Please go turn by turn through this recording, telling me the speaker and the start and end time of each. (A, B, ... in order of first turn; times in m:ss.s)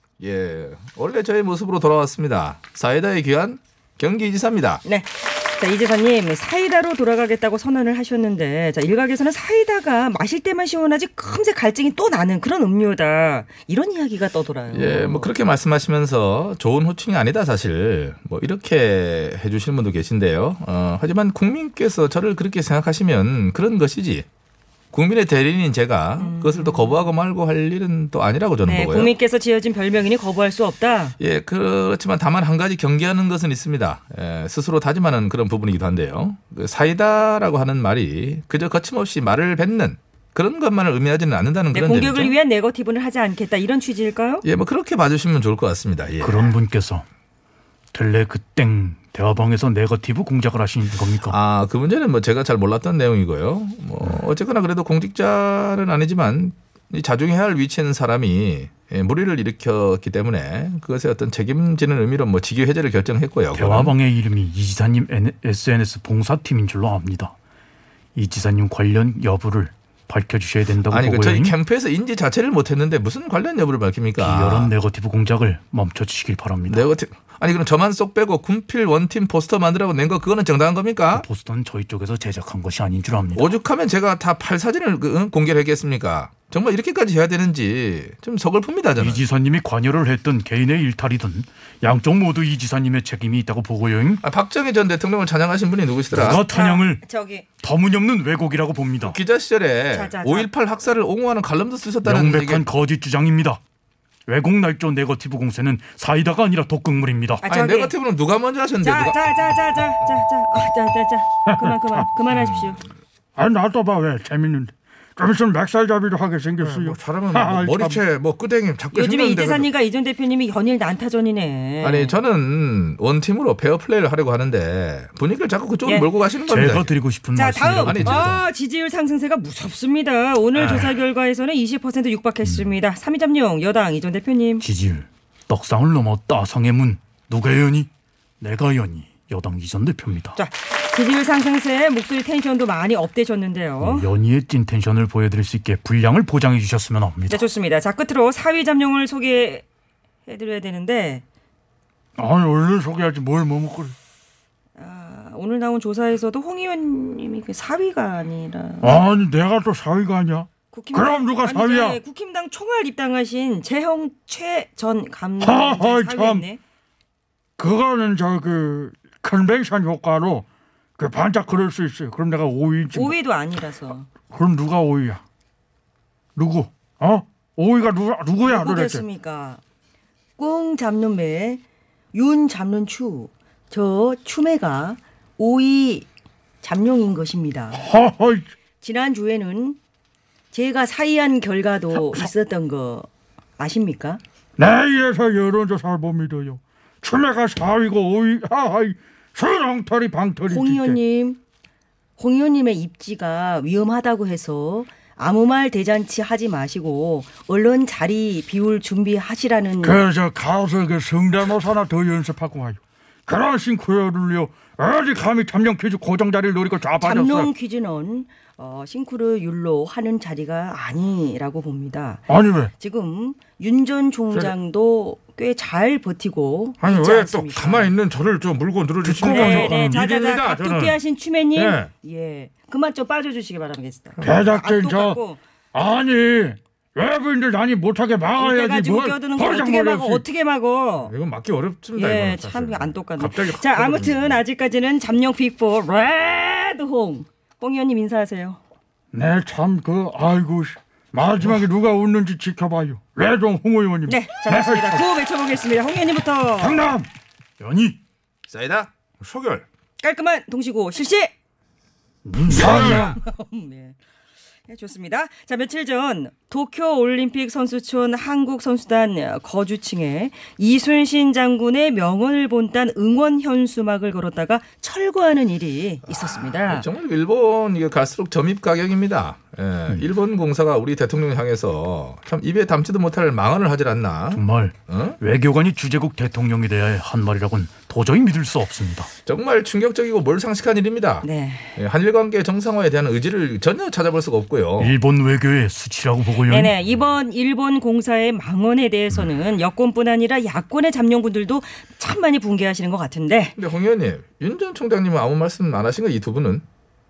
0:00.2-0:04.8 A
0:04.8-0:15.3 B
0:14.7-0:24.2 A
0:24.9-0:29.1 A
0:26.2-0:27.0 B
0:28.6-0:31.2 B
0:31.2-0:42.3 A
0:41.7-0:44.4 B
0:44.4-0:46.4 A
0:46.2-0:47.0 C
0:47.9-0:51.4 C
0:51.2-1:03.9 A
1:03.5-1:07.3 C
1:08.1-1:11.6 C
1:10.9-1:14.7 A
1:14.2-1:16.8 C
1:16.7-1:21.2 A
1:21.1-1:23.6 C
1:23.3-1:29.2 A
1:29.0-1:34.2 C
1:34.2-1:36.4 A
1:36.1-1:37.0 C
1:36.5-1:37.4 B
1:37.6-1:39.2 C
1:39.0-1:42.7 A
1:39.9-1:40.5 B
1:42.0-1:43.6 C
1:44.3-1:47.4 C
1:47.4-1:47.9 B
1:47.4-1:49.2 A
1:48.8-1:52.8 B
1:53.4-1:58.0 D
1:56.6-1:59.7 E
1:58.9-2:02.2 B
2:01.8-2:06.9 A
2:05.8-2:06.1 B
2:06.5-2:08.4 C
2:07.3-2:14.6 B
2:07.8-2:08.3 A
2:10.6-2:10.8 A
2:14.6-2:17.9 C
2:18.4-2:20.4 C
2:20.3-2:24.1 B
2:23.8-2:27.5 C
2:27.3-2:29.6 B
2:30.2-2:31.2 B
2:32.2-2:33.9 D
2:34.8-2:39.0 B
2:38.8-2:41.9 D
2:40.7-2:46.6 B
2:45.4-2:46.4 D
2:47.6-2:50.4 D
2:51.0-2:53.1 D
2:52.9-2:54.1 B
2:54.3-2:55.2 D
2:56.4-2:59.0 D
2:58.4-2:59.6 B
3:00.4-3:01.6 B
3:02.1-3:06.1 B
3:06.6-3:07.9 B
3:07.9-3:08.4 D
3:08.8-3:09.8 B
3:10.5-3:14.2 B
3:14.6-3:20.9 D
3:20.5-3:21.4 B
3:22.2-3:30.0 B
3:29.8-3:37.5 D
3:37.0-3:47.9 B
3:42.3-3:42.7 D
3:46.8-3:51.0 E
3:49.0-3:49.7 D
3:49.3-3:55.4 B
3:51.5-3:51.9 E
3:54.3-3:55.2 D
3:55.7-4:00.2 D
3:58.4-4:01.1 B
4:01.0-4:04.4 E
4:01.9-4:08.6 B
4:09.1-4:15.0 D
4:14.0-4:16.9 B
4:16.6-4:17.1 D
4:17.6-4:18.0 C
4:18.5-4:18.9 A
4:19.2-4:19.6 E
4:20.0-4:21.3 B
4:22.2-4:23.0 C
4:22.5-4:24.0 B
4:22.6-4:23.0 D
4:24.7-4:36.9 B
4:36.2-4:45.2 A
4:44.3-4:49.1 C
4:49.2-4:54.9 A
4:51.2-4:51.8 B
4:54.8-4:56.7 C
4:56.4-5:03.6 B
5:03.6-5:06.6 A